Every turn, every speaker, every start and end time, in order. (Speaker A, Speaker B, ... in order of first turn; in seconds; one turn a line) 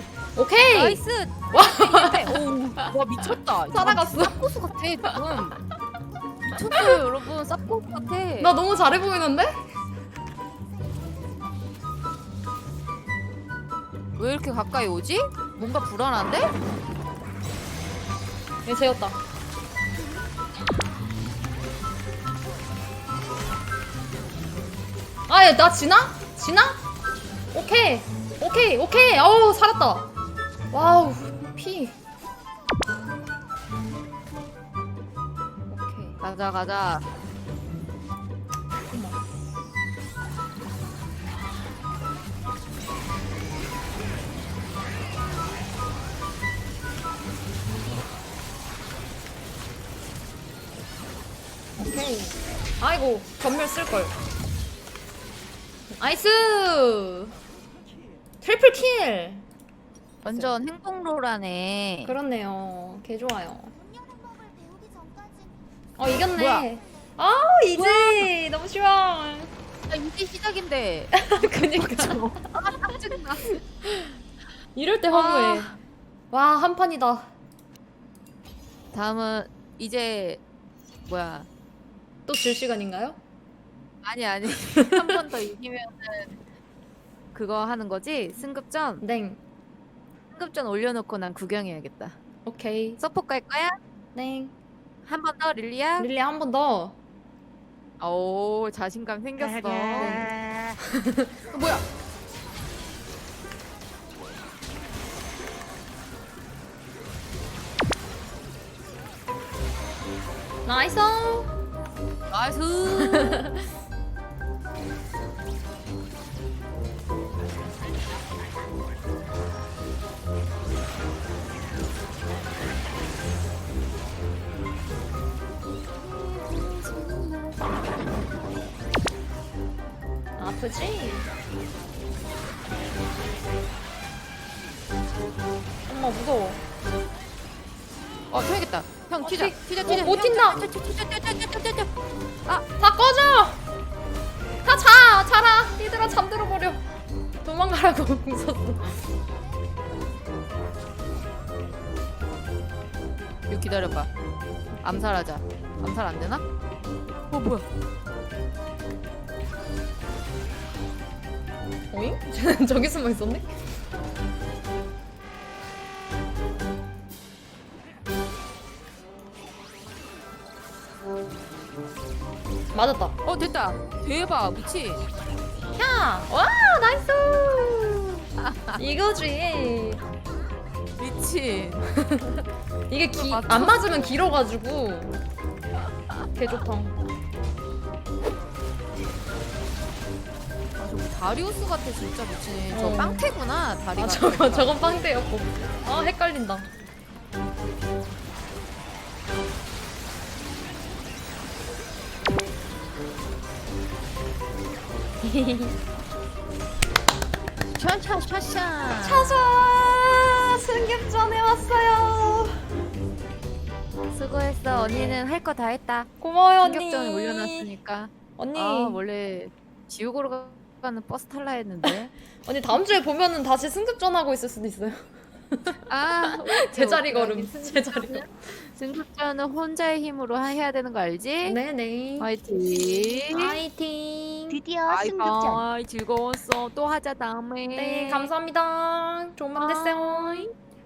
Speaker A: 0.4-2.5
Speaker B: 0.7-5.6
Speaker A: 3.7-4.5
Speaker B: 6.5-8.6
Speaker A: 6.6-7.0
Speaker A: 8.4-9.6
Speaker B: 14.2-16.5
Speaker A: 18.7-19.2
Speaker A: 25.3-26.8
Speaker A: 27.5-30.1
Speaker A: 30.7-32.0
Speaker A: 35.7-36.2
Speaker B: 36.2-37.0
Speaker A: 38.9-39.2
Speaker A: 51.8-54.1
Speaker A: 56.0-57.4
Speaker A: 58.4-59.5
Speaker B: 60.2-62.2
Speaker A: 60.2-60.5
Speaker A: 62.0-63.8
Speaker A: 66.0-69.5
Speaker B: 66.3-66.7
Speaker B: 67.8-68.3
Speaker B: 69.9-73.6
Speaker A: 71.1-72.9
Speaker A: 73.5-74.2
Speaker A: 74.8-75.8
Speaker B: 75.1-75.8
Speaker A: 76.3-77.3
Speaker B: 78.9-80.4
Speaker B: 81.1-81.5
Speaker A: 82.3-83.2
Speaker B: 84.0-86.4
Speaker A: 84.7-85.2
Speaker B: 87.3-89.0
Speaker A: 89.0-89.4
Speaker B: 90.3-92.2
Speaker A: 92.5-93.0
Speaker B: 93.0-93.8
Speaker A: 94.2-94.5
Speaker B: 95.0-96.1
Speaker A: 96.0-97.0
Speaker B: 98.0-100.4
Speaker C: 99.6-100.8
Speaker A: 100.0-101.4
Speaker B: 101.5-101.8
Speaker A: 110.7-111.5
Speaker B: 112.3-113.5
Speaker A: 113.0-113.5
Speaker B: 126.5-127.2
Speaker A: 130.4-131.3
Speaker A: 135.9-136.6
Speaker B: 138.3-141.9
Speaker A: 139.2-140.7
Speaker A: 142.8-143.6
Speaker A: 144.6-146.8
Speaker A: 147.4-149.0
Speaker B: 153.5-154.1
Speaker A: 154.8-155.1
Speaker B: 154.8-156.4
Speaker B: 157.3-157.7
Speaker A: 161.9-163.5
Speaker A: 172.7-173.2
Speaker B: 173.2-175.1
Speaker A: 175.8-180.0
Speaker B: 178.4-178.8
Speaker B: 181.0-181.9
Speaker A: 182.1-185.2
Speaker B: 183.2-184.2
Speaker A: 186.3-187.0
Speaker B: 190.8-194.7
Speaker A: 192.7-193.3
Speaker A: 194.0-196.7
Speaker A: 205.2-205.8
Speaker B: 207.8-209.4
Speaker A: 209.0-212.7
Speaker B: 214.1-216.1
Speaker A: 216.2-217.7
Speaker B: 216.6-222.1
Speaker A: 218.4-219.0
Speaker A: 222.4-228.2
Speaker B: 225.9-231.6
Speaker A: 231.4-234.6
Speaker B: 232.2-233.6
Speaker C: 234.5-235.7
Speaker B: 234.9-238.3
Speaker A: 237.7-240.5
Speaker B: 239.6-240.5